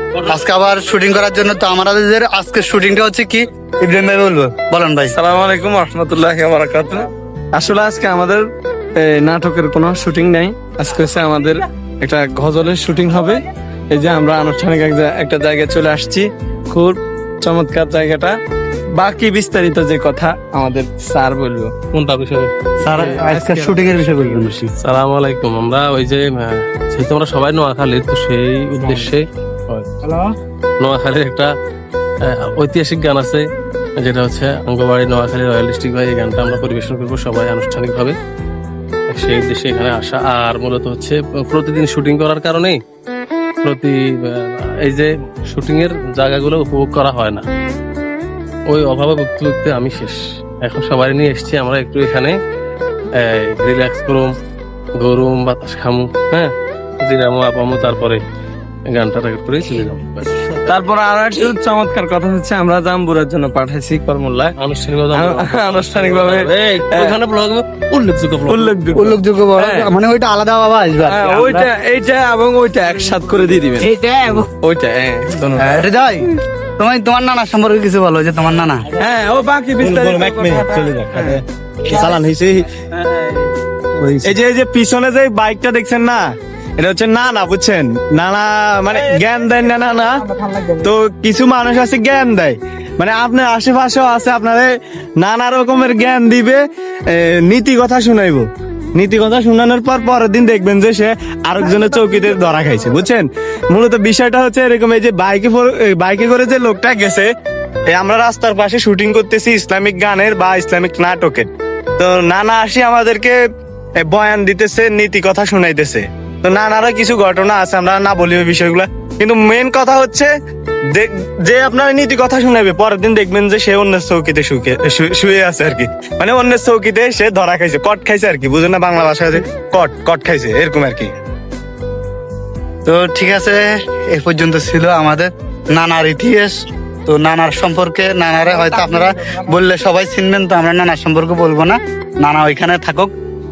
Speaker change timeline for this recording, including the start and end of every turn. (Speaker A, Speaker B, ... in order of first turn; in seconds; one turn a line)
Speaker A: 0.2-5.1
Speaker B: 5.1-18.4
Speaker B: 18.9-21.8
Speaker C: 21.9-22.5
Speaker A: 22.8-24.7
Speaker B: 22.9-24.5
Speaker C: 24.8-29.9
Speaker C: 30.8-31.5
Speaker C: 32.2-33.4
Speaker C: 34.0-38.1
Speaker C: 39.1-42.8
Speaker C: 43.6-47.5
Speaker C: 48.7-52.4
Speaker C: 53.2-54.3
Speaker C: 55.0-58.2
Speaker C: 58.9-60.5
Speaker B: 60.6-64.5
Speaker C: 64.6-69.0
Speaker B: 65.1-67.2
Speaker B: 68.5-69.9
Speaker A: 69.0-71.7
Speaker B: 71.0-75.8
Speaker A: 73.8-74.5
Speaker A: 75.6-78.8
Speaker B: 79.0-82.2
Speaker D: 79.8-82.7
Speaker B: 83.0-83.5
Speaker B: 84.0-84.3
Speaker D: 84.2-90.2
Speaker B: 90.3-90.8
Speaker D: 90.8-107.3
Speaker D: 107.9-113.4
Speaker D: 114.0-120.3
Speaker D: 120.9-131.1
Speaker A: 132.8-136.5
Speaker A: 137.1-143.1